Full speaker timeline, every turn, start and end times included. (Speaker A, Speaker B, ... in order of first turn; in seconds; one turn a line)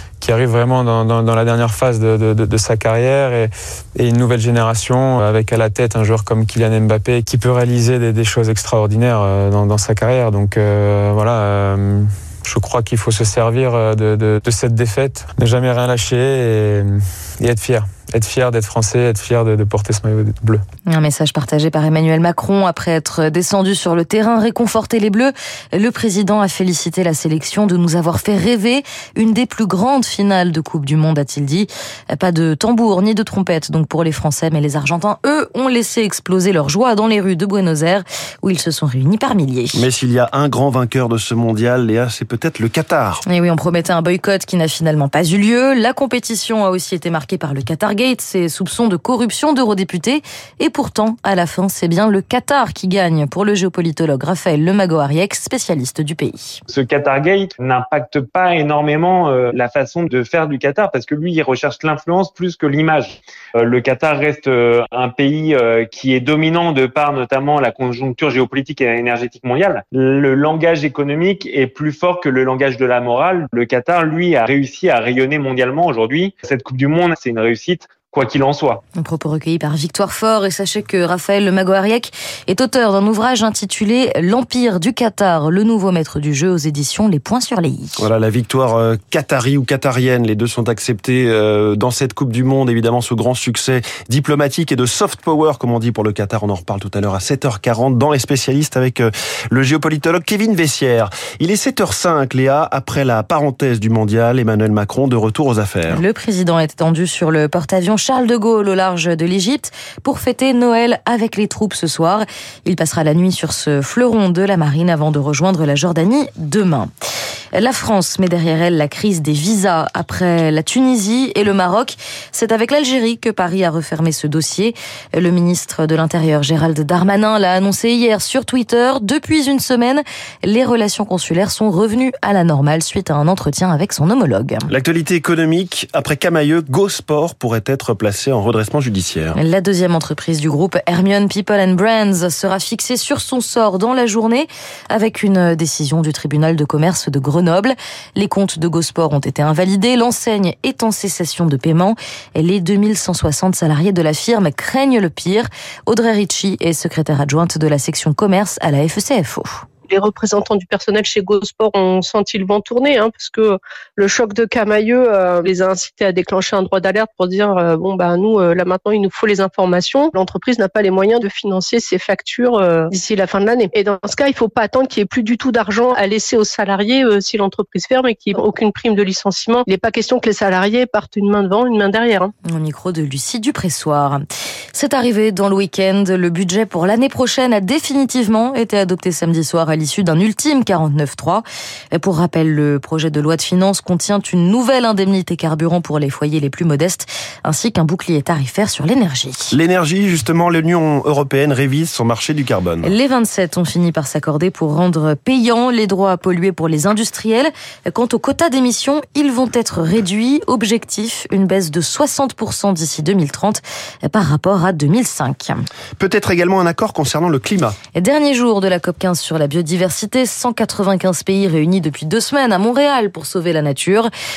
Speaker A: 0.2-20.6
Speaker B: 20.9-39.9
Speaker C: 39.7-43.2
Speaker B: 43.3-56.6
Speaker D: 56.7-78.8
Speaker B: 79.0-88.0
Speaker C: 88.0-106.0
Speaker B: 105.9-116.9
Speaker B: 117.5-134.7
Speaker C: 134.7-139.4
Speaker B: 139.3-159.6
Speaker E: 159.9-182.3
Speaker B: 182.5-184.2
Speaker B: 184.7-199.5
Speaker C: 199.5-202.9
Speaker B: 202.8-215.6
Speaker C: 216.0-217.8
Speaker B: 217.9-224.1